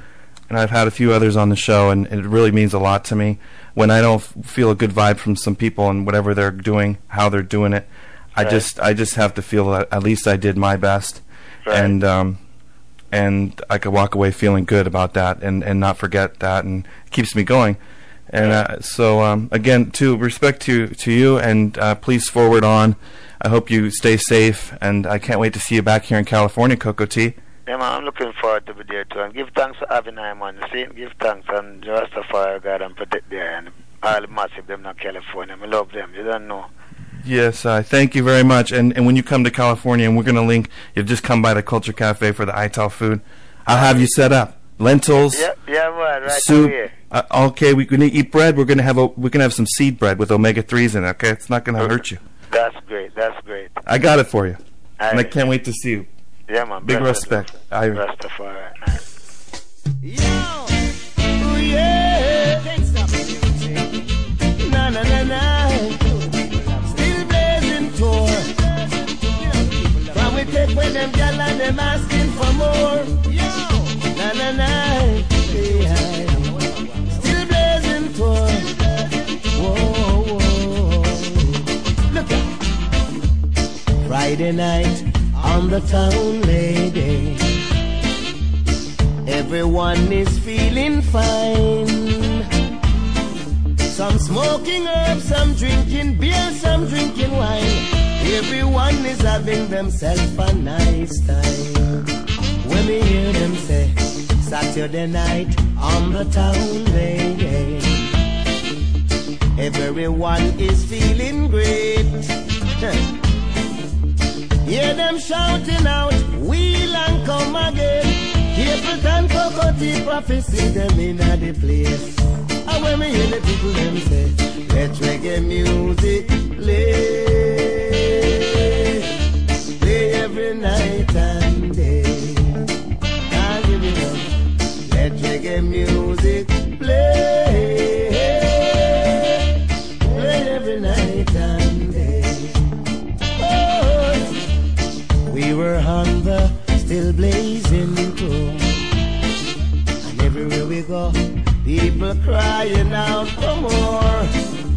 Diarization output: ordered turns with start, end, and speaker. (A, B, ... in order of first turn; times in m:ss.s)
0:00.5-0:12.4 A
0:08.4-0:08.7 B
0:11.6-0:12.0 B
0:13.1-0:27.4 A
0:27.6-0:36.7 B
0:37.2-0:45.5 A
0:43.7-0:44.1 B
0:45.3-0:46.9 B
0:46.2-0:52.2 A
0:51.8-0:53.8 B
0:53.8-0:56.1 A
0:55.0-0:55.3 B
0:56.5-0:59.0 B
0:56.8-0:58.0 A
1:00.0-1:00.8 C
1:01.4-1:03.9 C
1:04.6-1:06.2 C
1:06.8-1:08.5 C
1:10.0-1:18.7 C
1:19.5-1:21.4 C
1:22.1-1:22.5 C
1:24.0-1:27.4 C
1:29.2-1:32.4 C
1:33.9-1:42.0 C
1:42.6-1:48.0 C
1:49.6-1:53.0 C
1:54.6-2:08.8 C
2:09.8-2:12.6 C
2:13.3-2:14.3 C
2:14.9-2:19.4 C
2:20.0-2:22.6 C
2:23.4-2:24.3 C
2:25.3-2:28.7 C
2:30.0-2:34.3 C